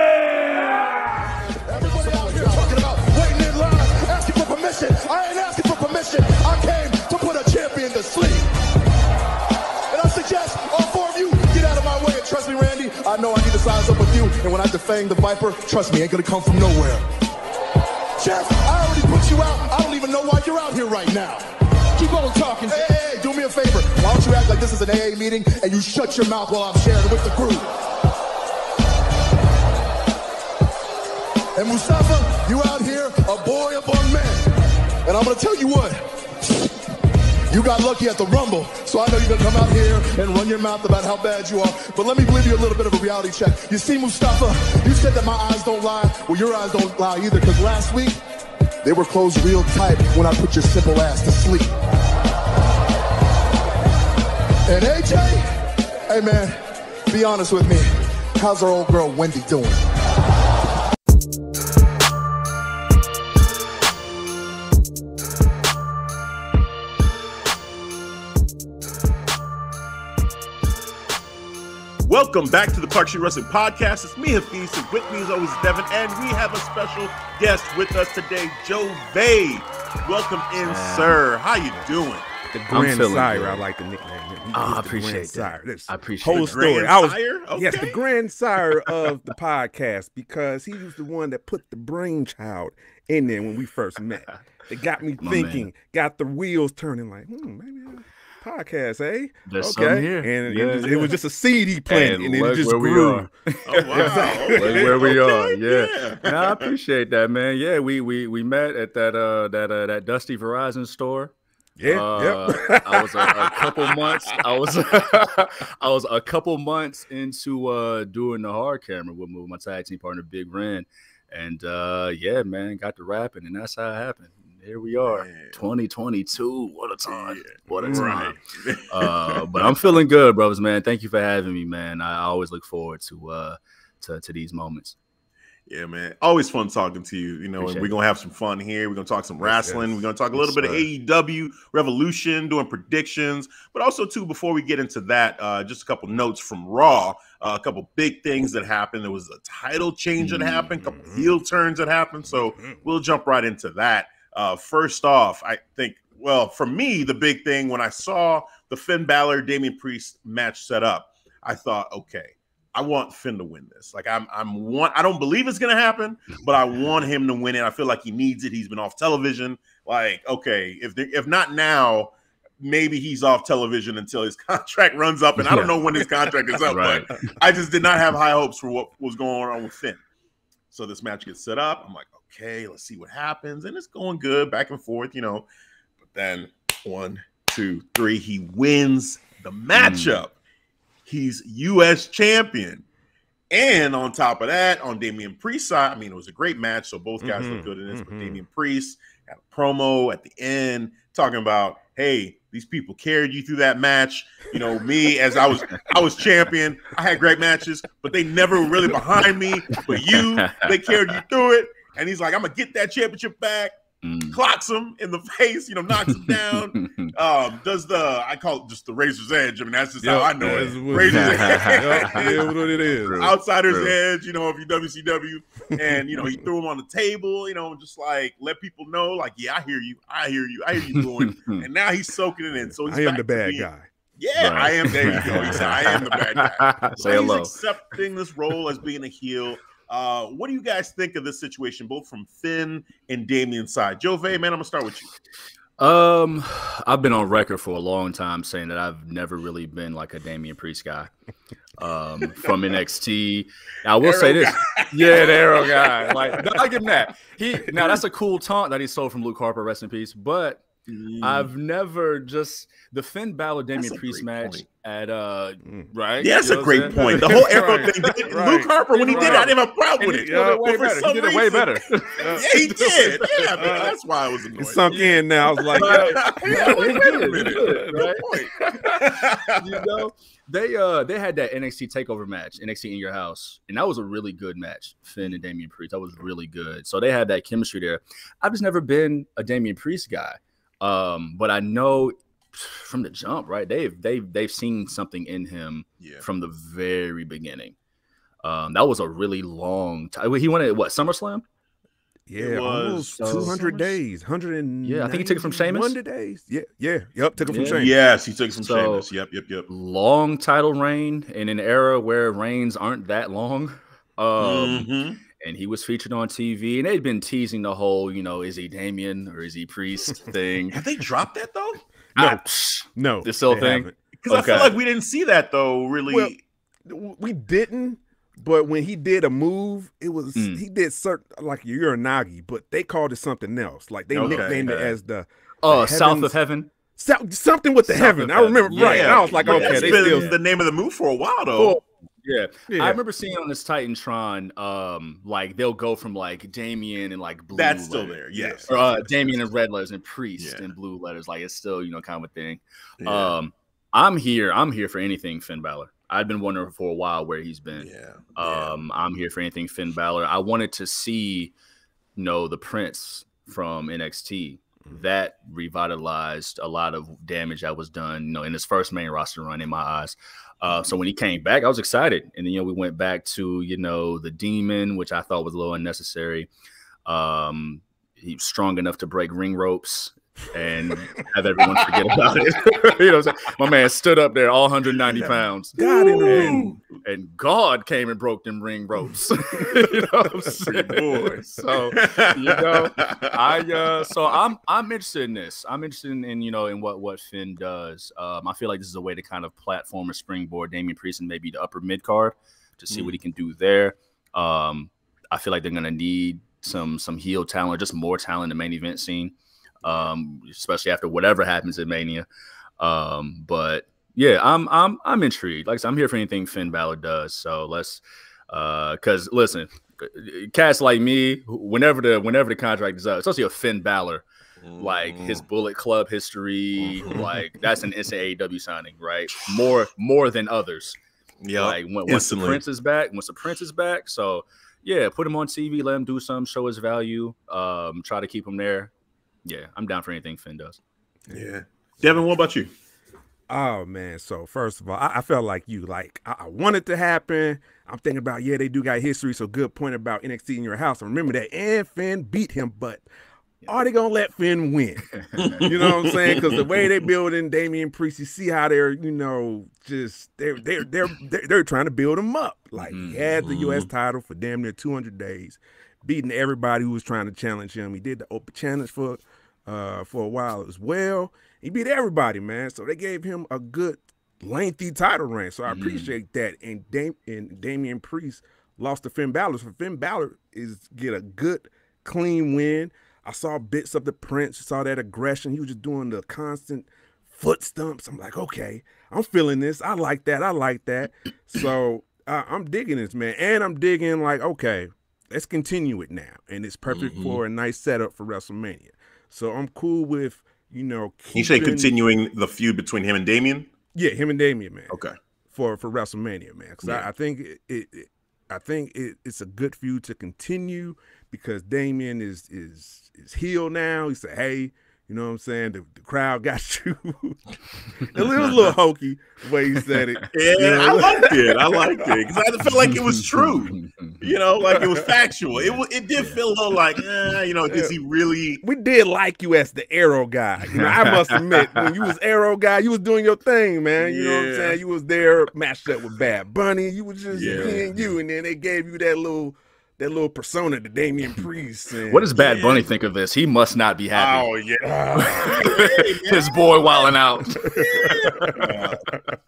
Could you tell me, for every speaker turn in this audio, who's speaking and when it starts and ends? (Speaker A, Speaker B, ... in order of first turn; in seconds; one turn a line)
Speaker A: 0.4-0.7
Speaker B: 1.6-8.5
Speaker B: 9.9-17.1
Speaker B: 18.2-21.4
Speaker B: 22.0-27.7
Speaker B: 31.6-34.5
Speaker B: 35.0-36.0
Speaker B: 37.5-48.2
Speaker B: 48.8-51.8
Speaker B: 54.7-55.5
Speaker B: 56.1-59.9
Speaker C: 72.0-82.3
Speaker D: 80.6-81.2
Speaker A: 82.5-104.9
Speaker D: 82.7-83.6
Speaker D: 84.5-86.7
Speaker C: 86.2-88.0
Speaker D: 95.2-95.7
Speaker D: 99.5-101.2
Speaker D: 101.9-111.3
Speaker C: 103.7-106.7
Speaker A: 111.8-113.6
Speaker D: 111.9-128.4
Speaker C: 125.0-125.6
Speaker C: 127.1-129.7
Speaker A: 127.7-128.2
Speaker D: 128.9-135.0
Speaker C: 135.7-180.0
Speaker D: 137.6-137.9
Speaker A: 139.4-140.9
Speaker D: 150.2-150.7
Speaker A: 150.8-151.4
Speaker D: 175.4-175.7
Speaker D: 176.7-177.3
Speaker C: 180.7-185.5
Speaker C: 186.0-190.3
Speaker D: 189.7-190.2
Speaker C: 191.1-192.9
Speaker C: 193.5-213.7
Speaker A: 197.2-198.4
Speaker D: 209.7-211.2
Speaker D: 214.0-214.4
Speaker C: 214.3-222.6
Speaker D: 216.0-217.1
Speaker A: 220.0-223.3
Speaker D: 220.4-223.9
Speaker C: 223.2-245.1
Speaker D: 230.8-231.7
Speaker A: 232.8-233.9
Speaker D: 234.4-237.5
Speaker A: 235.0-235.6
Speaker D: 245.8-251.1
Speaker D: 251.8-260.6
Speaker C: 254.0-256.6
Speaker C: 260.9-261.5
Speaker D: 261.2-268.0
Speaker C: 263.8-264.6
Speaker A: 265.6-265.9
Speaker C: 266.2-275.1
Speaker A: 266.9-269.5
Speaker D: 269.0-273.9
Speaker A: 270.2-270.6
Speaker A: 272.2-272.5
Speaker A: 273.6-273.9
Speaker A: 274.6-278.0
Speaker D: 274.9-278.3
Speaker C: 275.7-279.8
Speaker A: 278.6-279.0
Speaker D: 279.6-297.8
Speaker D: 298.4-301.4
Speaker A: 302.3-307.9
Speaker C: 302.4-304.0
Speaker D: 303.2-303.6
Speaker D: 304.8-305.9
Speaker D: 307.5-307.8
Speaker C: 307.6-309.7
Speaker D: 308.6-309.1
Speaker D: 309.7-314.9
Speaker C: 314.4-315.2
Speaker D: 315.4-320.8
Speaker C: 320.7-321.8
Speaker D: 322.1-324.8
Speaker A: 322.2-322.4
Speaker A: 322.9-324.0
Speaker C: 324.2-326.4
Speaker A: 326.9-336.4
Speaker D: 330.4-330.6
Speaker C: 334.1-334.8
Speaker D: 334.2-334.9
Speaker D: 335.6-336.7
Speaker A: 336.9-340.3
Speaker D: 337.9-340.4
Speaker C: 338.7-341.8
Speaker D: 341.6-361.5
Speaker A: 342.7-343.0
Speaker C: 347.5-348.8
Speaker A: 348.4-348.6
Speaker C: 350.4-350.7
Speaker C: 353.0-353.4
Speaker C: 357.8-358.8
Speaker D: 362.2-376.5
Speaker D: 377.1-412.3
Speaker A: 385.2-386.7
Speaker C: 385.8-386.8
Speaker A: 389.7-390.1
Speaker C: 390.7-393.6
Speaker C: 402.9-403.2
Speaker D: 412.8-424.2
Speaker C: 424.6-425.4
Speaker D: 424.8-431.0
Speaker C: 426.8-427.2
Speaker C: 431.4-432.6
Speaker D: 431.6-438.9
Speaker D: 439.4-440.8
Speaker C: 441.3-442.7
Speaker A: 443.5-453.1
Speaker A: 453.6-455.1
Speaker D: 455.1-455.6
Speaker C: 455.4-456.9
Speaker A: 455.6-502.0
Speaker D: 462.8-463.4
Speaker C: 463.4-463.9
Speaker D: 475.7-476.1
Speaker C: 496.9-497.4
Speaker C: 501.3-503.7
Speaker A: 503.9-505.0
Speaker C: 504.9-505.1
Speaker A: 505.5-517.4
Speaker A: 518.0-521.4
Speaker D: 518.1-518.7
Speaker D: 519.8-520.3
Speaker C: 520.3-528.6
Speaker D: 522.8-524.3
Speaker D: 525.5-526.4
Speaker A: 527.7-528.0
Speaker A: 528.6-542.3
Speaker D: 530.7-531.7
Speaker C: 534.0-534.8
Speaker C: 537.3-537.9
Speaker D: 537.4-537.9
Speaker D: 542.1-544.5
Speaker C: 542.3-542.9
Speaker C: 544.1-547.1
Speaker A: 544.8-545.6
Speaker D: 545.2-548.7
Speaker A: 547.6-549.2
Speaker C: 547.7-549.0